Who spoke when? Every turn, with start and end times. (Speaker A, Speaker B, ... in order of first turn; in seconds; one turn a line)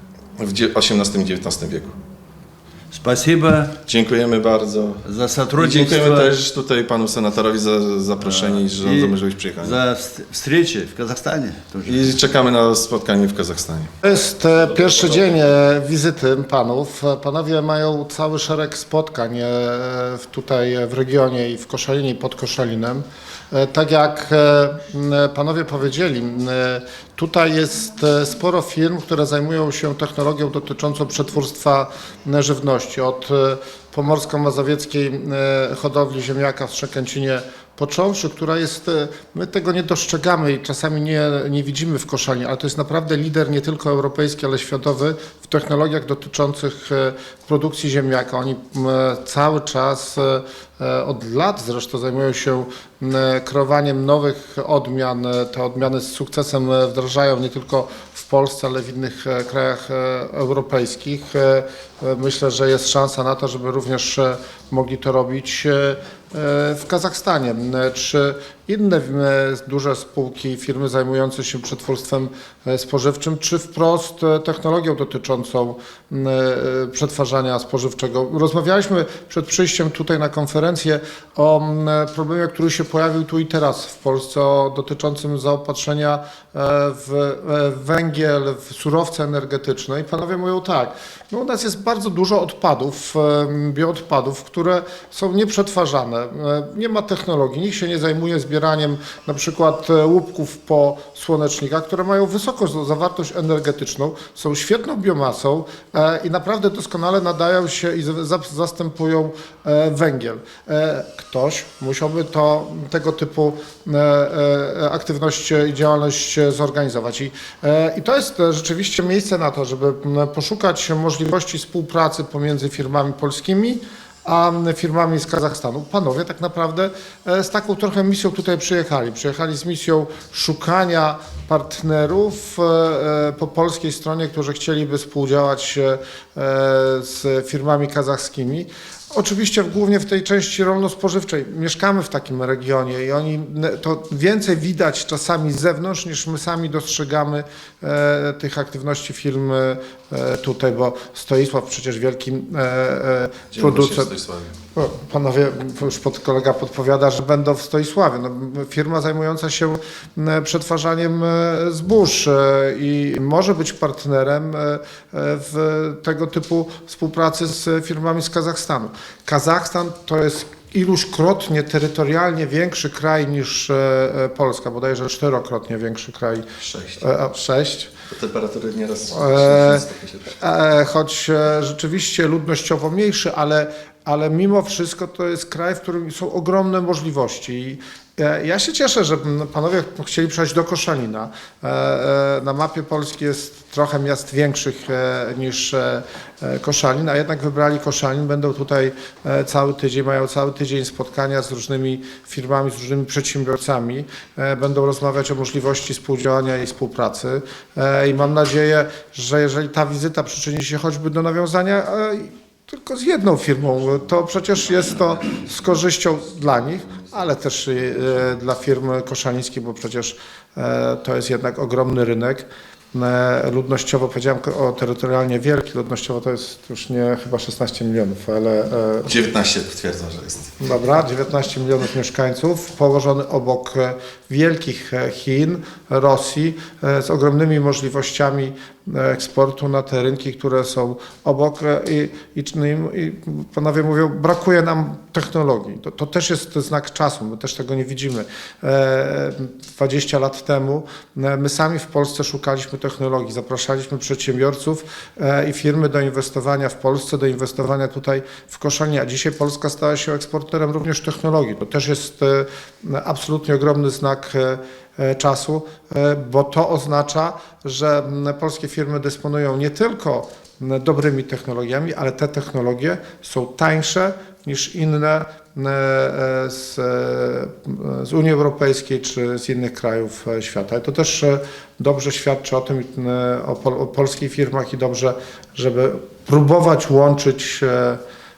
Speaker A: 0.4-2.0
Speaker B: 2.9-3.7
Speaker A: 3.9-9.8
Speaker B: 5.0-6.3
Speaker B: 8.2-12.1
Speaker A: 11.8-13.9
Speaker C: 14.0-154.1
Speaker A: 153.5-154.5
Speaker C: 154.7-176.4
Speaker A: 176.6-177.0
Speaker C: 177.0-177.9
Speaker A: 178.1-180.3
Speaker C: 179.1-179.8
Speaker C: 180.4-229.1
Speaker A: 229.0-230.5
Speaker C: 230.6-288.0